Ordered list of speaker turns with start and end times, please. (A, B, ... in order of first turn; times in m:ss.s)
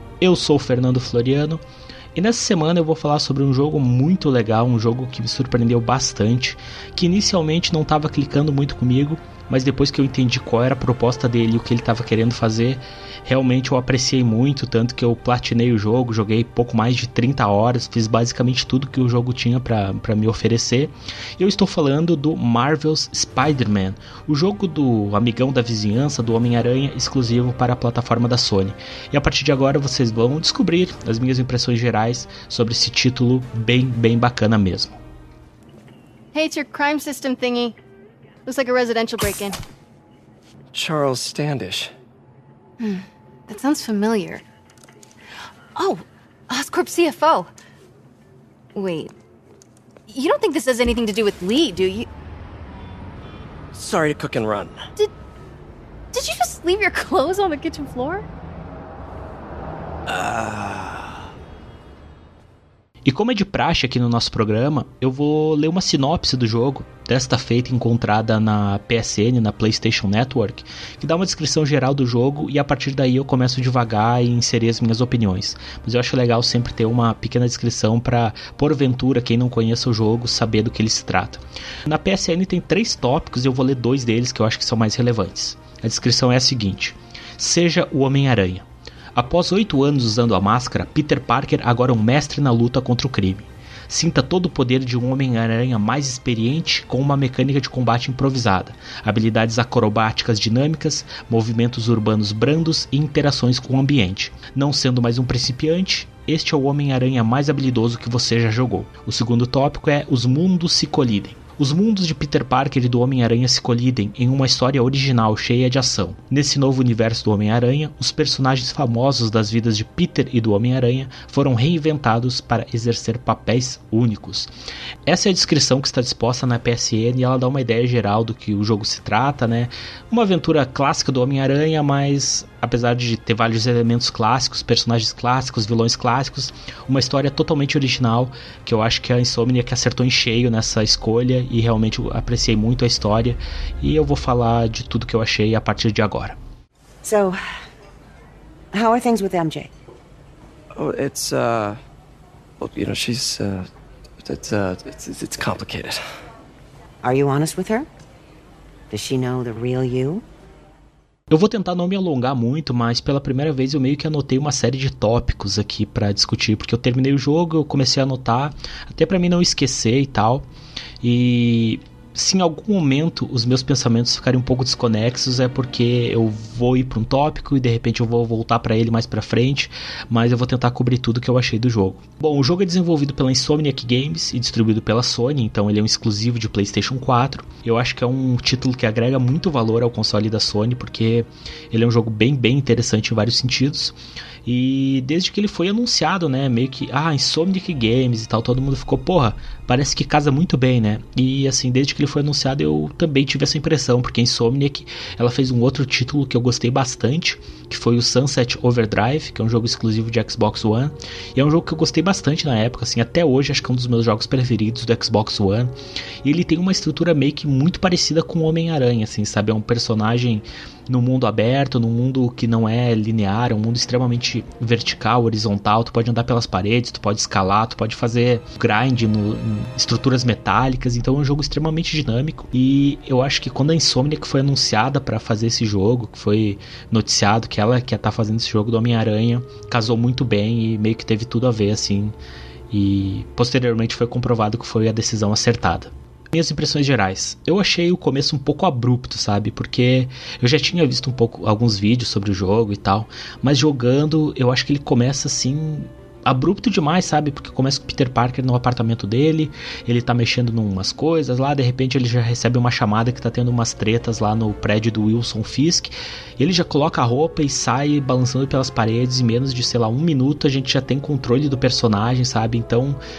0:00.2-0:01.6 A
0:02.1-0:35.0 A
0:36.3-0:37.8 B
0:38.4-0:39.6 B
0:40.7-0:41.9 C
0:42.8-0:44.4 B
0:45.8-0:47.5 B
0:48.7-0:49.1 B
0:50.1-0:52.1 B
0:53.7-0:54.8 C
0:56.1-0:58.3 B
1:00.1-1:01.2 C
1:03.0-2:04.5 A
2:05.0-2:26.4 A
2:27.0-2:27.4 D
2:28.7-2:29.7 D
2:30.7-2:31.8 C
2:32.6-2:33.7 C
2:34.2-2:36.0 C
2:37.0-2:37.9 D
2:38.9-2:40.2 D
2:41.3-2:50.4 A
2:51.0-4:02.1 A
4:02.7-4:33.0 A